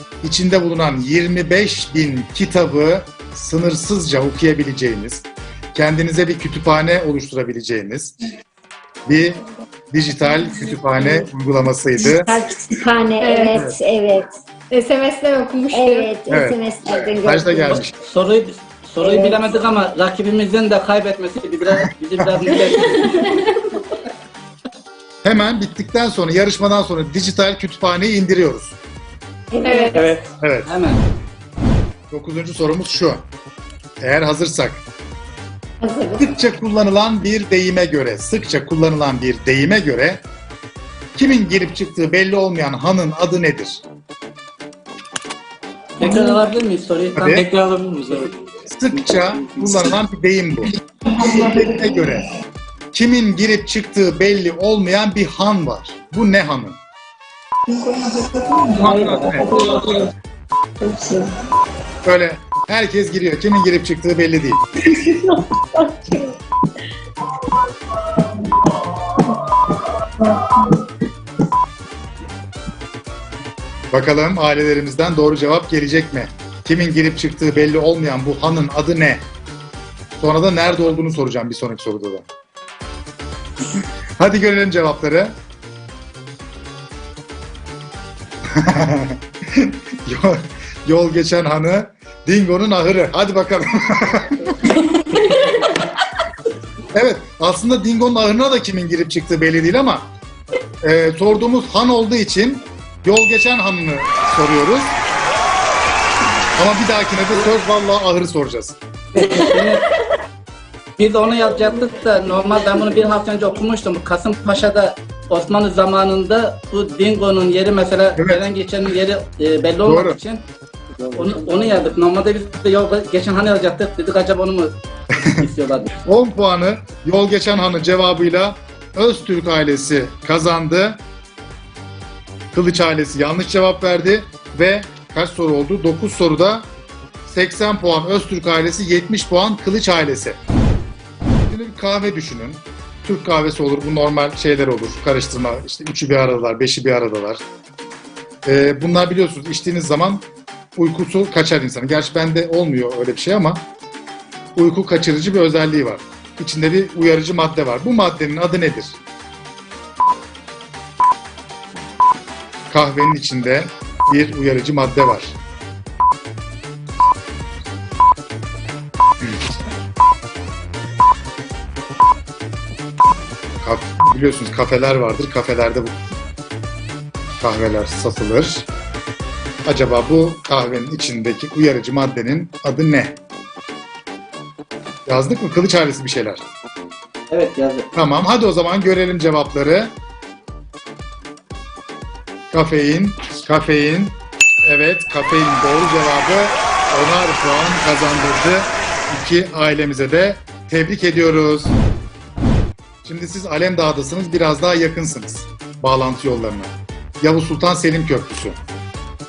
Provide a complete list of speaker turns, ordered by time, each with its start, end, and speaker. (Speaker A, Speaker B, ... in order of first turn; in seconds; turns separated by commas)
Speaker A: 0.2-8.2, Speaker A: 9.1-9.4, Speaker A: 9.9-12.3, Speaker B: 12.0-14.3, Speaker C: 13.2-13.6, Speaker C: 14.7-16.1, Speaker B: 15.7-17.8, Speaker A: 16.3-16.6, Speaker A: 17.2-17.9, Speaker D: 18.0-23.4, Speaker A: 25.2-28.8, Speaker B: 29.5-30.2, Speaker C: 29.6-30.0, Speaker E: 29.9-30.2, Speaker A: 30.4-30.7, Speaker D: 30.7-31.0, Speaker A: 32.1-33.3, Speaker A: 34.0-34.8, Speaker B: 35.8-36.2, Speaker A: 36.2-40.2, Speaker A: 41.2-43.8, Speaker D: 46.0-47.4, Speaker A: 47.2-47.4, Speaker E: 47.3-48.4, Speaker A: 48.7-50.7, Speaker C: 51.2-51.5, Speaker A: 51.3-52.3, Speaker A: 52.9-56.8, Speaker C: 57.8-58.6, Speaker A: 58.8-59.5, Speaker E: 58.9-59.7, Speaker C: 59.5-59.9, Speaker C: 60.8-61.2, Speaker A: 62.0-64.6, Speaker C: 64.9-66.3, Speaker C: 70.2-70.7, Speaker A: 73.9-79.3, Speaker A: 80.2-82.3, Speaker A: 84.2-85.4, Speaker A: 88.5-94.4, Speaker A: 96.9-100.1, Speaker A: 100.8-105.0, Speaker A: 106.6-108.8, Speaker D: 109.2-109.9, Speaker D: 111.0-120.4, Speaker A: 118.2-118.4, Speaker A: 119.8-120.2, Speaker E: 121.0-121.9, Speaker D: 121.2-124.7, Speaker D: 125.3-125.9, Speaker A: 126.0-131.0, Speaker A: 132.5-136.7, Speaker A: 137.3-140.4, Speaker A: 141.5-147.4, Speaker A: 148.4-153.7, Speaker A: 154.6-159.0, Speaker A: 162.7-165.4, Speaker A: 173.6-176.0, Speaker A: 177.4-178.7, Speaker A: 179.7-183.2, Speaker A: 185.1-186.4, Speaker D: 187.3-187.9, Speaker A: 187.9-189.9, Speaker A: 192.5-201.8, Speaker A: 203.0-208.6